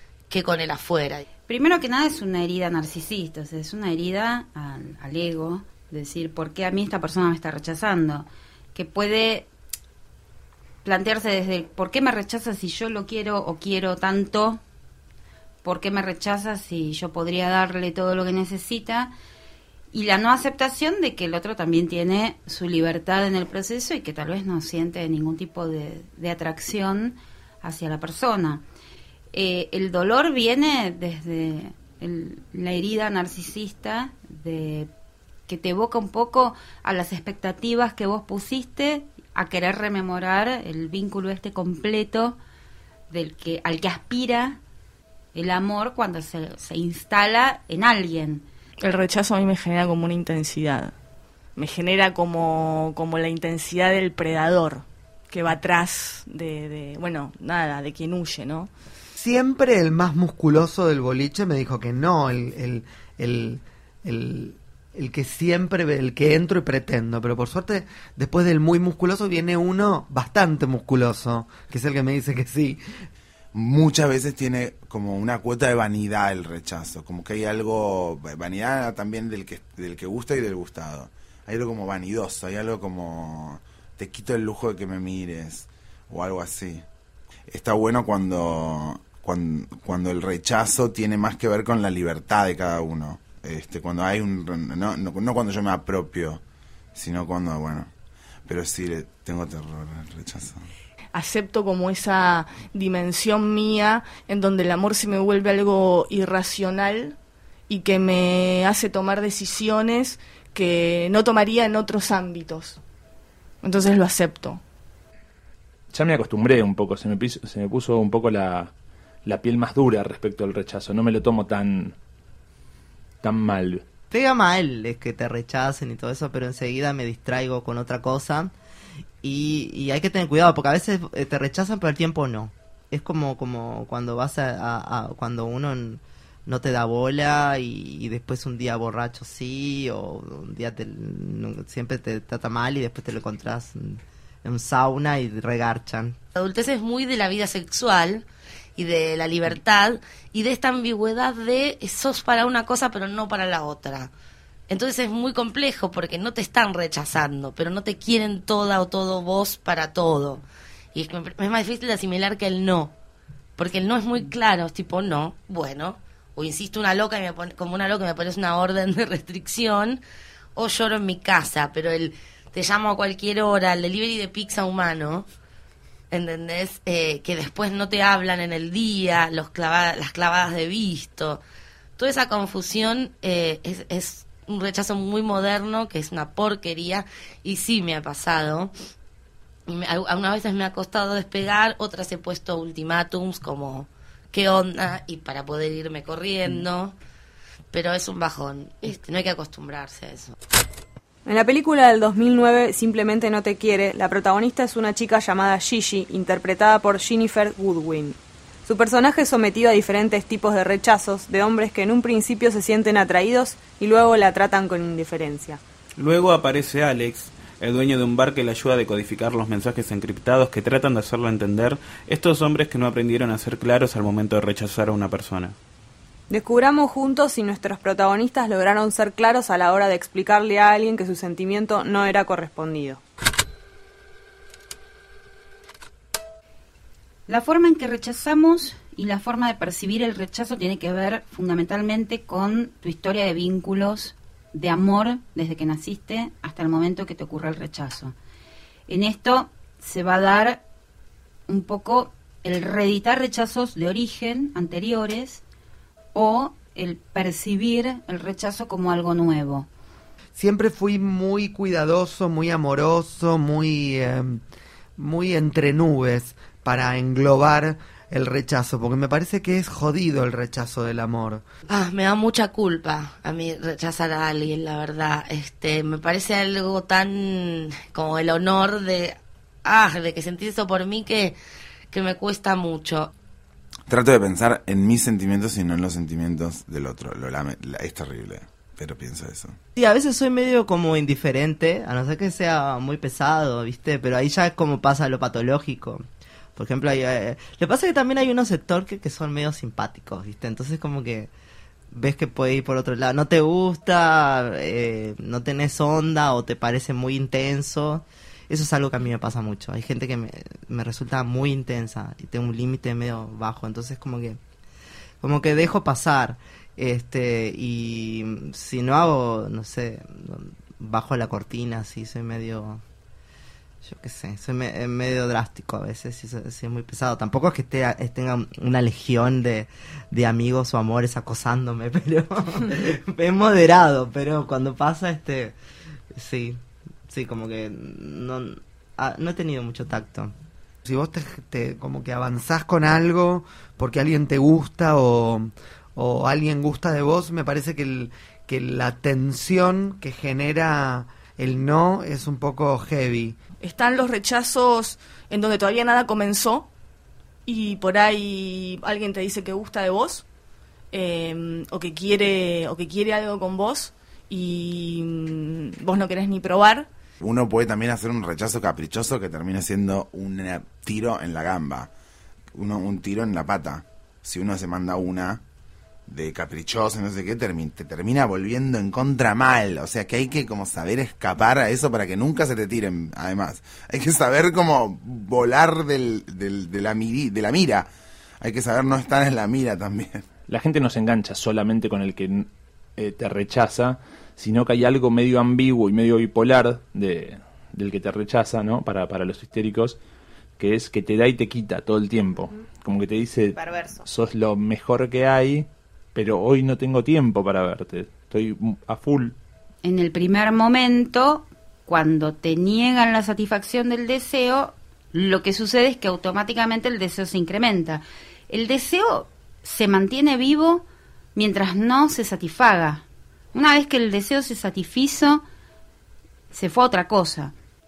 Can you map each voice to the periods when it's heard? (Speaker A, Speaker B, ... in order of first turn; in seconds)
Speaker A: 0.3-1.2, 146.3-154.1, 154.7-162.9, 163.6-170.0, 170.6-175.3, 176.1-181.4, 182.0-188.7, 189.7-196.9, 197.7-200.3, 271.7-281.4, 281.9-283.1
Speaker B: 1.5-9.5, 10.8-14.6, 15.6-19.1, 19.9-28.6, 29.3-34.9, 35.5-42.4, 43.1-44.6, 45.4-48.5, 237.3-248.1, 248.9-250.6, 251.5-255.4, 256.1-259.7, 409.8-425.4, 426.5-427.5
Speaker C: 48.8-50.9, 51.6-58.7, 101.1-107.2, 107.7-112.8, 113.6-114.6, 353.6-356.7, 357.5-360.3, 360.9-366.9
Speaker D: 59.2-72.8, 260.4-264.4, 265.0-271.4, 340.8-353.4
Speaker E: 73.5-86.8, 87.5-96.4, 97.0-97.9, 98.5-100.7, 283.9-289.6, 367.2-371.9, 372.5-375.4, 376.1-387.9, 388.4-390.2
Speaker F: 115.9-118.7, 119.2-122.0, 123.2-123.8, 390.5-400.0, 400.6-409.4
Speaker G: 124.1-128.5, 129.2-146.2, 289.8-296.1, 296.6-301.3, 301.9-314.4, 315.2-322.8, 323.8-335.6, 336.1-340.4
Speaker H: 201.3-215.6, 226.3-233.0, 403.6-404.0
Speaker I: 216.0-225.6